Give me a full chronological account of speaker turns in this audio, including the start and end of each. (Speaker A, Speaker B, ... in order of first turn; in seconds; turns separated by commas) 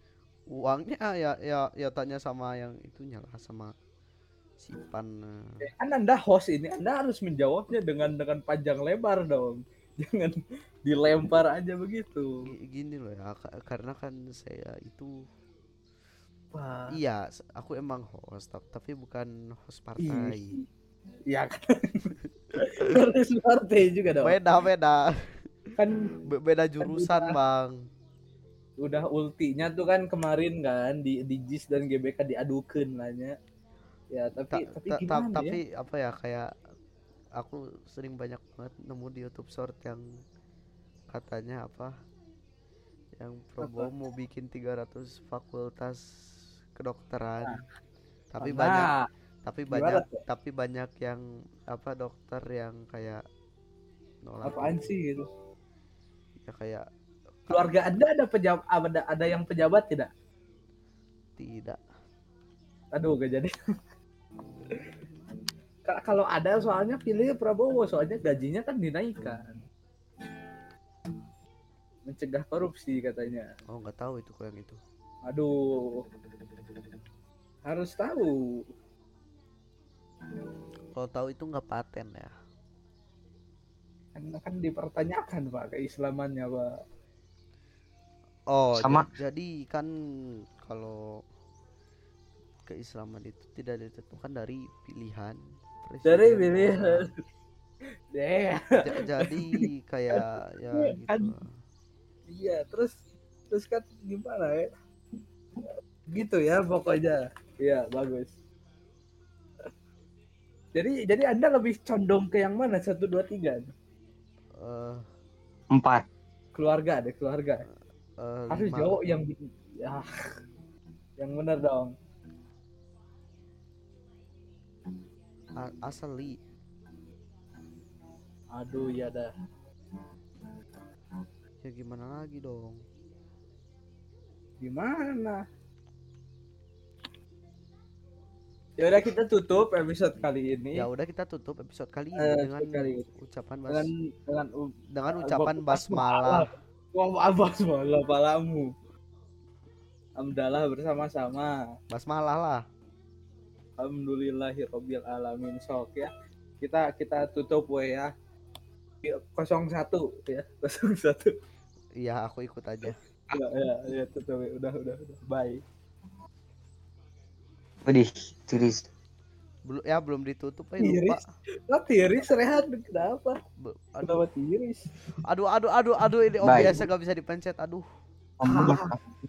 Speaker A: 0.5-3.7, Speaker A: 4.6-5.6, Speaker B: 5.6-12.3, Speaker A: 12.5-15.1, Speaker B: 16.5-16.9, Speaker A: 16.9-20.6, Speaker B: 20.0-20.6, Speaker B: 21.3-24.4, Speaker A: 24.2-25.1, Speaker A: 26.3-27.8, Speaker B: 26.8-27.4, Speaker B: 28.8-33.4, Speaker B: 34.1-35.6, Speaker A: 34.5-36.5, Speaker A: 37.4-40.0, Speaker A: 41.1-41.9, Speaker A: 43.2-46.0, Speaker B: 43.6-43.9, Speaker A: 46.8-47.6, Speaker A: 48.3-48.9, Speaker B: 48.4-49.0, Speaker A: 49.5-53.2, Speaker B: 49.7-50.2, Speaker A: 54.2-54.8, Speaker B: 54.4-55.3, Speaker A: 56.4-56.8, Speaker B: 57.5-60.1, Speaker A: 61.4-61.8, Speaker B: 62.9-63.5, Speaker B: 65.9-69.6, Speaker B: 72.1-73.5, Speaker A: 73.7-74.8, Speaker B: 75.3-76.0, Speaker B: 77.7-78.6, Speaker A: 81.0-82.3, Speaker B: 84.2-86.7, Speaker A: 88.5-91.1, Speaker C: 88.8-89.1, Speaker A: 92.7-97.1, Speaker B: 96.0-97.1, Speaker B: 98.1-98.7, Speaker A: 98.8-101.5, Speaker B: 99.2-99.6, Speaker B: 100.8-101.3, Speaker B: 102.3-102.9, Speaker B: 103.5-104.7, Speaker B: 106.1-108.3, Speaker B: 110.8-113.7, Speaker A: 114.6-115.0, Speaker C: 115.7-116.0, Speaker B: 116.5-117.7, Speaker A: 118.2-119.0, Speaker B: 118.5-120.1, Speaker B: 121.2-121.9, Speaker A: 125.6-126.4, Speaker B: 128.5-129.3, Speaker A: 131.6-132.8, Speaker B: 134.6-135.4, Speaker B: 138.8-140.8, Speaker A: 140.8-143.9, Speaker B: 142.2-143.1, Speaker B: 143.7-148.7, Speaker A: 144.9-146.5, Speaker B: 150.2-151.6, Speaker A: 151.9-152.6, Speaker B: 153.8-158.1, Speaker B: 159.0-161.3, Speaker A: 162.0-162.9, Speaker B: 163.3-165.6, Speaker C: 167.9-168.8, Speaker A: 169.7-171.2, Speaker B: 170.8-173.3, Speaker A: 173.6-174.2, Speaker B: 174.0-174.8, Speaker A: 175.3-177.8, Speaker C: 176.4-176.9, Speaker C: 178.4-179.0, Speaker B: 178.4-178.9